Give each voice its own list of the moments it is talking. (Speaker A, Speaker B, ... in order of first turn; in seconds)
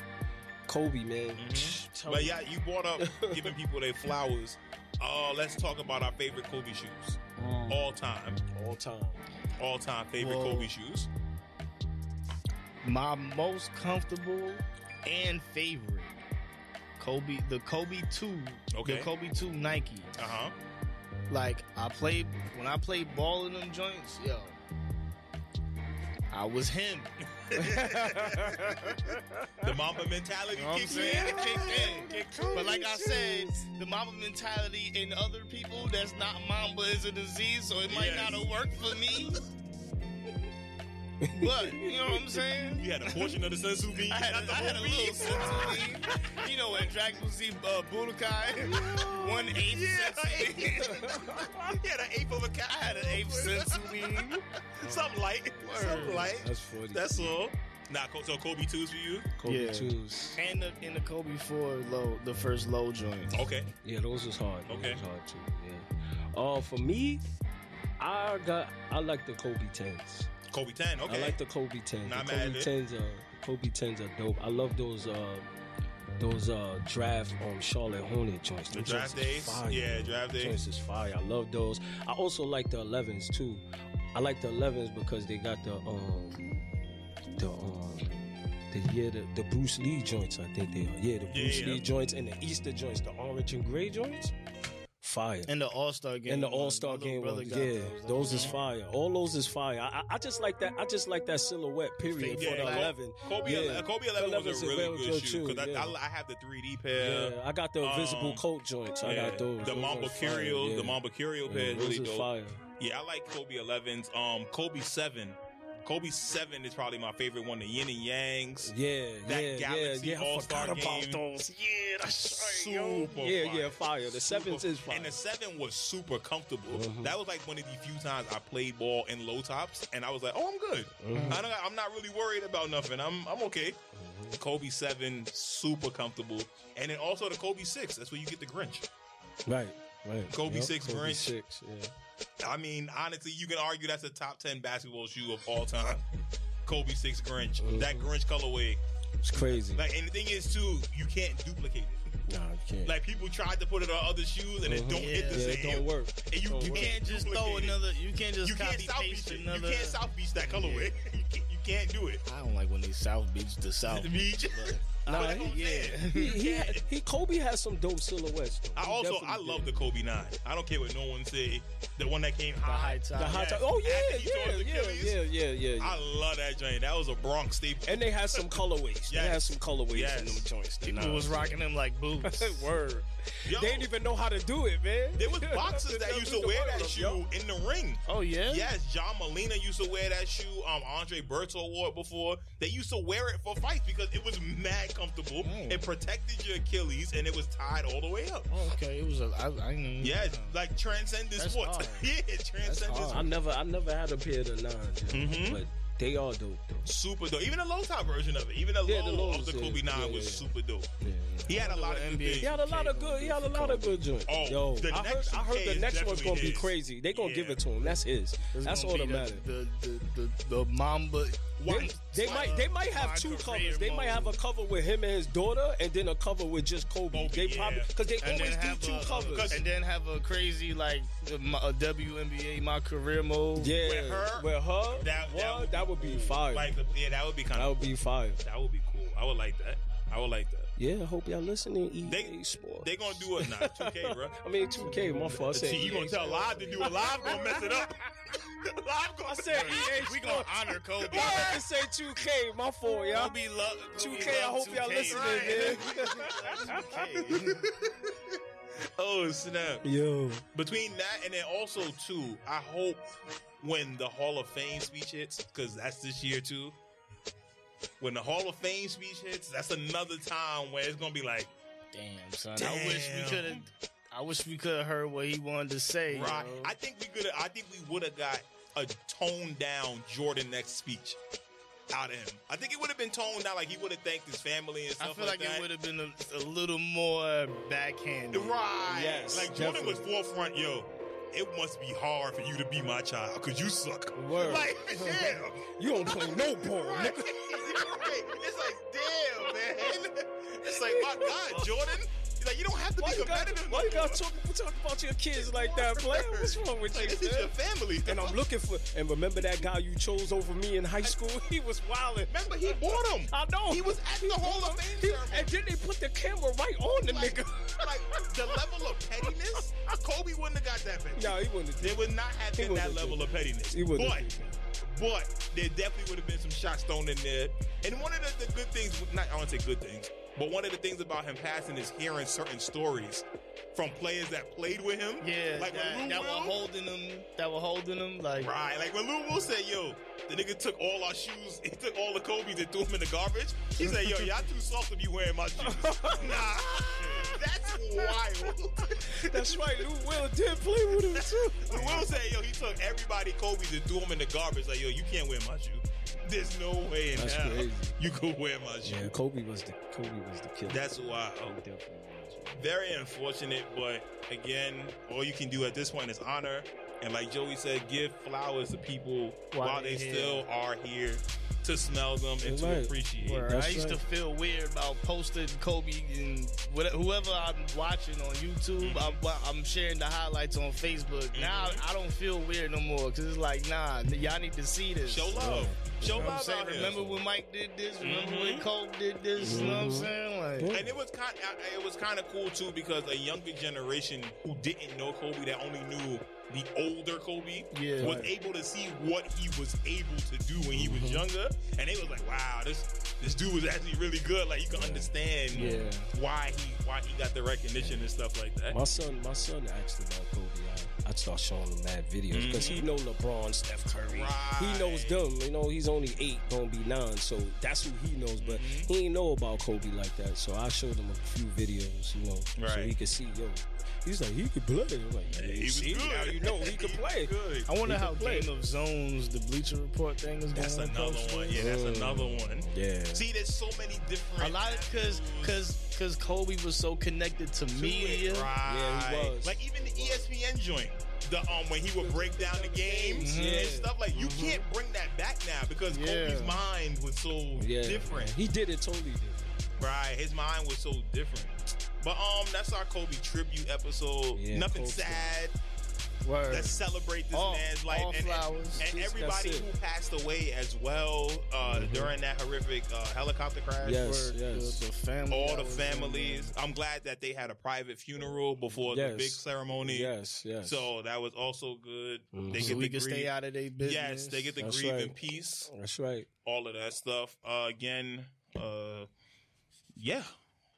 Speaker A: 0.7-2.4, 3.0-3.5, 8.5-9.2, 27.6-29.7, 30.9-33.6, 41.2-42.4, 45.4-45.8, 48.6-49.6, 50.9-51.8, 54.8-57.4, 59.4-60.4, 63.8-67.2, 68.0-70.3, 71.1-75.5, 76.2-86.5, 87.3-88.1, 88.7-94.3, 95.0-95.5, 96.3-106.0, 106.9-112.6, 118.6-125.2, 126.7-127.1, 131.0-131.4, 133.9-134.4, 139.4-141.9, 147.6-148.1, 149.2-149.8, 152.3-152.9, 154.6-156.9, 165.1-170.0, 173.2-176.0, 177.9-181.6, 182.2-187.2, 203.1-206.9, 208.8-211.5, 212.4-219.4, 221.7-229.6, 233.6-236.7, 237.5-238.4, 240.8-247.6, 249.2-253.4, 254.0-257.0, 259.8-260.4, 288.9-290.1, 294.1-297.9, 299.4-300.0, 300.6-301.8, 303.0-307.5, 308.0-318.6, 319.2-319.6, 321.1-324.6, 345.6-346.4, 349.1-352.0, 357.1-357.9, 358.8-362.6, 372.4-374.0, 385.3-386.3, 389.4-390.9, 400.7-401.2, 404.7-405.9, 407.8-408.1, 408.7-427.3, 427.8-428.5, 431.5-433.2, 438.6-440.1, 441.9-444.6, 447.6-449.5, 454.3-455.3, 458.7-459.7, 461.7-462.1, 463.8-464.8, 468.9-470.9, 472.3-472.8, 474.6-476.3
Speaker B: 1.4-8.4, 9.6-11.1, 18.7-19.1, 20.2-20.5, 27.4-29.1, 29.6-32.6, 37.9-38.6, 42.7-46.4, 48.6-59.3, 63.3-63.7, 64.7-65.0, 70.5-71.4, 72.0-72.7, 78.7-80.6, 91.3-91.8, 98.2-98.6, 102.3-108.4, 109.0-118.7, 119.2-121.2, 122.2-133.8, 134.3-138.8, 140.3-141.3, 142.4-146.0, 146.7-148.8, 149.3-152.0, 152.8-157.8, 158.4-162.2, 163.9-166.8, 168.8-175.2, 175.8-178.5, 179.1-180.5, 183.4-183.9, 185.2-198.5, 200.0-203.3, 205.1-205.6, 206.8-210.9, 211.4-212.5, 214.3-217.6, 221.6-222.6, 227.1-227.9, 229.3-229.6, 233.8-240.7, 242.0-244.3, 245.2-249.9, 251.0-251.6, 255.1-256.6, 257.2-259.9, 260.5-263.0, 263.6-266.8, 268.0-271.5, 272.6-273.7, 276.1-281.2, 281.9-285.7, 288.3-304.3, 305.4-308.4, 312.3-315.6, 317.1-324.3, 324.8-336.6, 338.4-350.1, 351.1-359.1, 360.7-361.6, 362.5-373.4, 378.8-379.2, 381.3-381.8, 385.1-387.0, 388.0-388.6, 390.7-408.8, 412.3-412.9, 414.1-415.2, 418.4-418.9, 422.6-422.9, 425.3-427.7, 430.5-435.6, 437.7-448.4, 449.8-455.5, 456.5-464.0, 465.3-473.3, 473.8-475.7, 476.4-479.1, 479.9-480.3
Speaker C: 7.4-7.8, 10.2-10.7, 12.8-16.1, 17.0-20.1, 21.3-24.6, 26.3-27.1, 30.5-39.4, 41.4-42.9, 44.0-51.2, 52.7-54.4, 55.6-56.3, 59.4-63.4, 95.5-98.5, 102.1-102.9, 131.1-131.4, 154.9-155.6, 156.6-161.0, 162.2-166.4, 172.6-173.5, 180.8-182.7, 188.1-188.7, 195.4-195.9, 198.5-200.6, 201.4-203.3, 211.4-214.0, 218.5-224.4, 228.2-233.8, 249.5-251.6, 253.1-257.7, 271.9-276.7, 285.0-288.6, 297.8-298.1, 335.2-338.5, 346.1-347.4, 351.7-352.1, 369.5-370.4, 373.2-390.8, 397.7-398.3, 405.5-406.1, 427.7-431.6, 434.4-438.5, 443.1-443.8, 445.9-446.6, 456.2-458.8, 463.9-466.5, 472.5-474.5